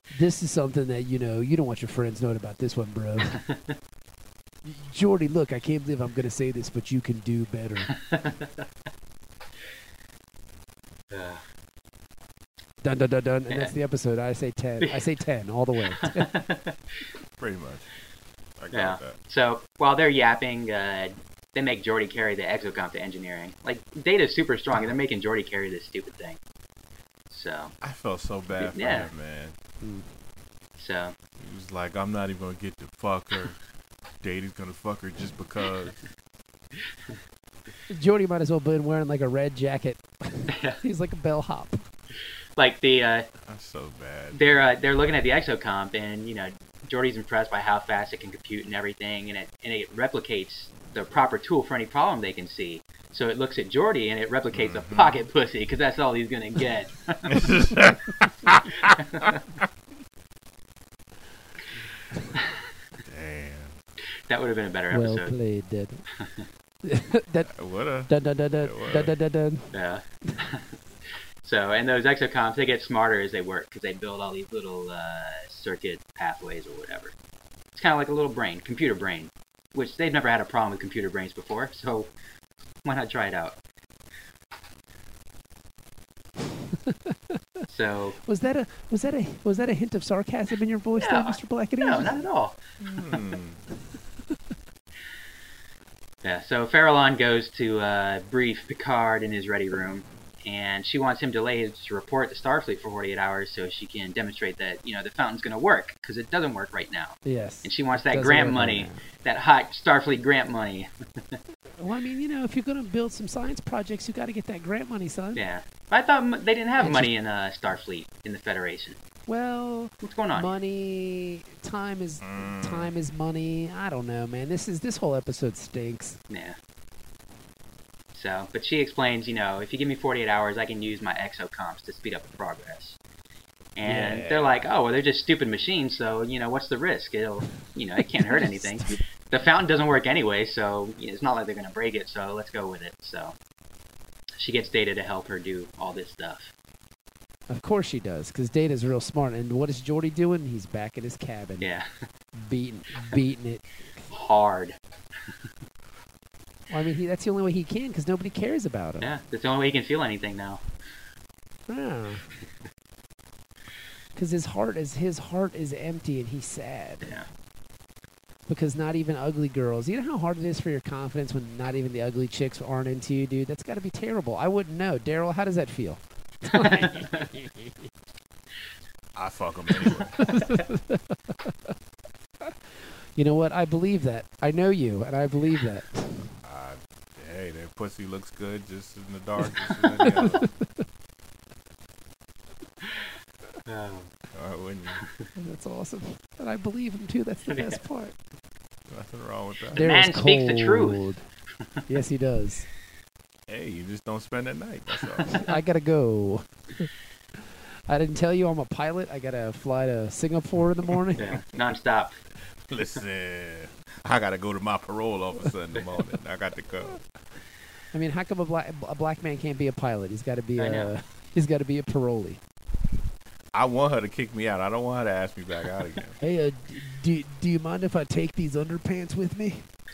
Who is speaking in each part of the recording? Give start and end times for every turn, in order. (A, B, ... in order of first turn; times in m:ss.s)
0:00.1-0:03.4 A
0:03.3-0:03.8 B
0:04.6-0:07.9 A
0:07.9-0:08.6 B
0:11.1-0:11.4 B
0:12.8-0:16.4 A
0:13.5-0:13.7 B
0:16.0-0:16.9 B
0:17.4-0:17.8 C
0:18.6-0:19.2 C
0:18.7-0:26.4 B
0:27.3-0:27.7 B
0:27.8-0:29.6 C
0:28.6-0:29.1 B
0:29.8-0:30.1 A
0:30.8-0:31.2 B
0:31.4-0:33.6 C
0:34.2-0:36.0 C
0:37.9-0:41.8 A
0:40.5-0:40.8 B
0:42.6-0:43.3 B
0:43.5-0:44.4 C
0:44.3-0:57.5 B
0:54.5-0:55.2 C
0:57.3-0:59.3 C
0:58.9-0:59.4 B
1:03.0-1:03.8 C
1:04.3-1:05.3 B
1:04.9-1:06.0 A
1:06.2-1:06.4 B
1:06.8-1:07.5 A
1:07.5-1:09.1 C
1:08.1-1:09.7 A
1:09.7-1:10.7 B
1:11.4-1:17.1 B
1:17.7-1:22.1 B
1:22.8-1:23.6 B
1:27.7-1:28.2 B
1:28.2-1:32.2 A
1:31.0-1:32.6 B
1:32.8-1:33.6 C
1:36.2-1:51.4 B
1:47.2-1:49.0 A
1:51.8-1:55.4 A
1:55.3-1:59.0 B
1:56.8-1:57.1 A
1:59.3-2:06.2 A
2:00.0-2:00.5 B
2:02.2-2:02.9 C
2:06.3-2:06.6 B
2:08.1-2:13.0 B
2:13.8-2:23.3 B
2:13.8-2:14.5 A
2:18.2-2:19.0 A
2:24.4-2:26.5 B
2:27.5-2:31.7 A
2:31.6-2:31.9 B
2:32.4-2:34.1 A
2:34.1-2:34.8 B
2:36.7-2:39.1 A
2:39.0-2:40.6 B
2:41.7-2:42.3 A
2:44.1-2:47.1 A
2:48.5-2:57.7 A
2:56.5-2:57.3 B
2:59.1-3:00.4 C
3:00.2-3:01.5 A
3:00.3-3:00.6 B
3:03.1-3:06.3 A
3:06.4-3:10.4 C
3:09.9-3:10.5 A
3:13.6-3:14.1 B
3:14.3-3:15.0 C
3:15.4-3:18.1 A
3:17.5-3:17.8 B
3:18.9-3:19.8 C
3:19.7-3:21.2 A
3:19.7-3:21.0 B
3:21.9-3:22.7 A
3:23.5-3:25.3 C
3:25.0-3:25.5 B
3:25.3-3:26.9 A
3:27.9-3:31.3 A
3:31.2-3:32.2 B
3:32.7-3:37.0 C
3:37.9-3:42.4 A
3:40.6-3:40.9 B
3:43.5-3:46.2 C
3:46.2-3:49.6 A